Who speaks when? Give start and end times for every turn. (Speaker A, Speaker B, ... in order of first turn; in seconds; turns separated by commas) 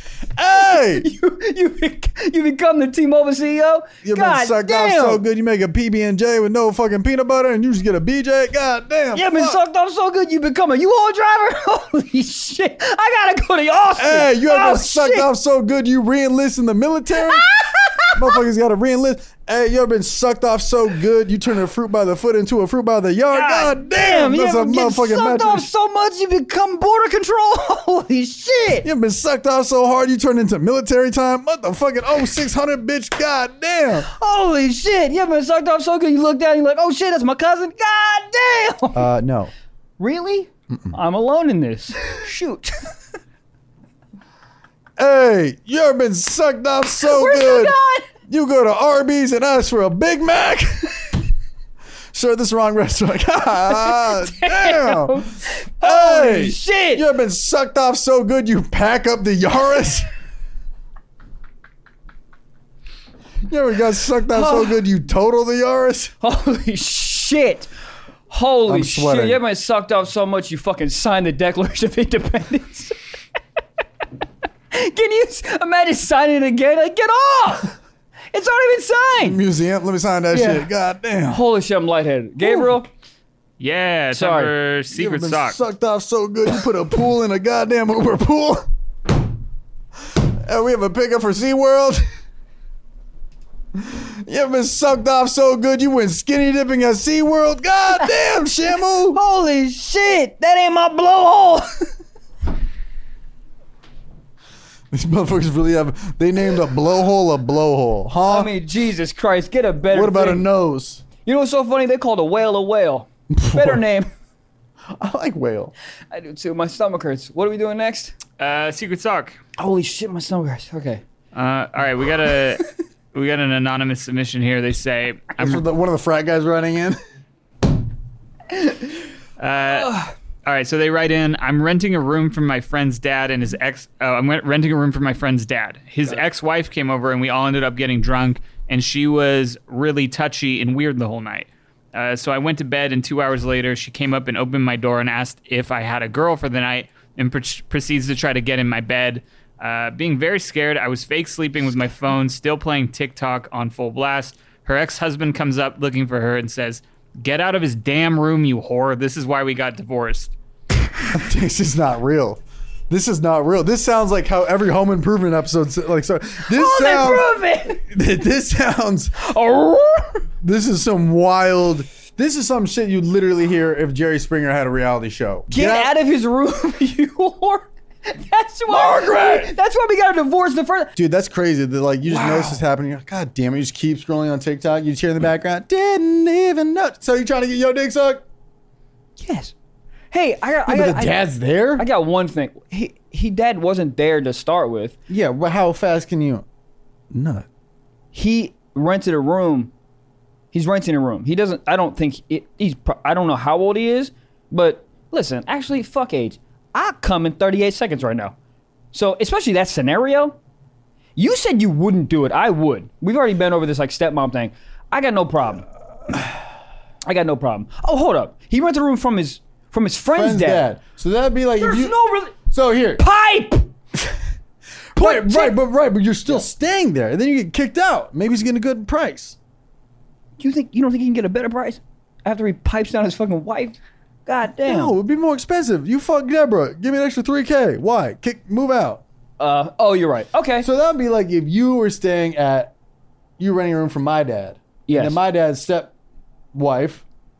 Speaker A: 0.3-1.1, Speaker B: 0.6-5.2, Speaker A: 4.0-9.6, Speaker B: 9.1-15.3, Speaker A: 13.9-17.4, Speaker B: 17.1-18.4, Speaker A: 18.1-25.6, Speaker B: 23.3-28.9, Speaker A: 28.8-34.1, Speaker B: 34.0-39.1, Speaker A: 38.9-39.5, Speaker B: 40.0-42.9, Speaker A: 45.0-47.7, Speaker B: 47.0-48.1, Speaker A: 48.3-51.0, Speaker A: 52.1-55.2, Speaker B: 53.7-57.0, Speaker A: 55.8-60.1, Speaker A: 63.5-66.1, Speaker B: 64.3-64.8, Speaker B: 66.2-67.7, Speaker B: 68.3-73.0, Speaker A: 68.7-69.4, Speaker B: 74.7-77.8, Speaker B: 78.3-79.4, Speaker A: 79.2-81.4, Speaker B: 80.3-80.7, Speaker B: 81.3-82.9, Speaker C: 83.6-85.6, Speaker B: 84.1-84.5, Speaker A: 84.9-88.6, Speaker A: 90.2-92.0, Speaker A: 93.8-99.2, Speaker B: 99.1-101.8, Speaker A: 104.9-108.5, Speaker B: 108.2-110.4, Speaker A: 109.9-111.0, Speaker B: 111.2-114.1, Speaker A: 113.3-113.8, Speaker A: 115.0-115.7, Speaker B: 116.1-118.2, Speaker C: 118.4-119.4, Speaker B: 119.6-121.0, Speaker C: 121.3-125.6, Speaker A: 125.4-127.0, Speaker C: 129.4-160.3, Speaker B: 129.7-130.1, Speaker A: 161.1-169.2, Speaker B: 166.5-167.8, Speaker B: 169.2-170.2, Speaker A: 170.4-175.9, Speaker B: 175.5-180.9, Speaker A: 178.7-179.5, Speaker A: 180.9-188.2, Speaker B: 182.1-182.6, Speaker B: 189.2-189.5, Speaker B: 190.1-191.2, Speaker A: 190.7-191.8, Speaker B: 191.8-194.9, Speaker A: 195.1-196.4, Speaker A: 197.1-197.4, Speaker B: 198.1-199.7, Speaker B: 200.5-208.3, Speaker B: 208.9-210.4, Speaker B: 211.2-215.7, Speaker B: 217.0-220.7, Speaker A: 220.1-223.0, Speaker B: 221.6-222.3, Speaker B: 223.0-223.7, Speaker A: 224.9-229.4, Speaker B: 225.0-225.6, Speaker B: 230.4-234.9, Speaker A: 234.7-239.0, Speaker B: 239.4-240.7, Speaker A: 240.6-242.7, Speaker A: 243.4-245.9, Speaker B: 244.9-245.2, Speaker A: 246.5-247.0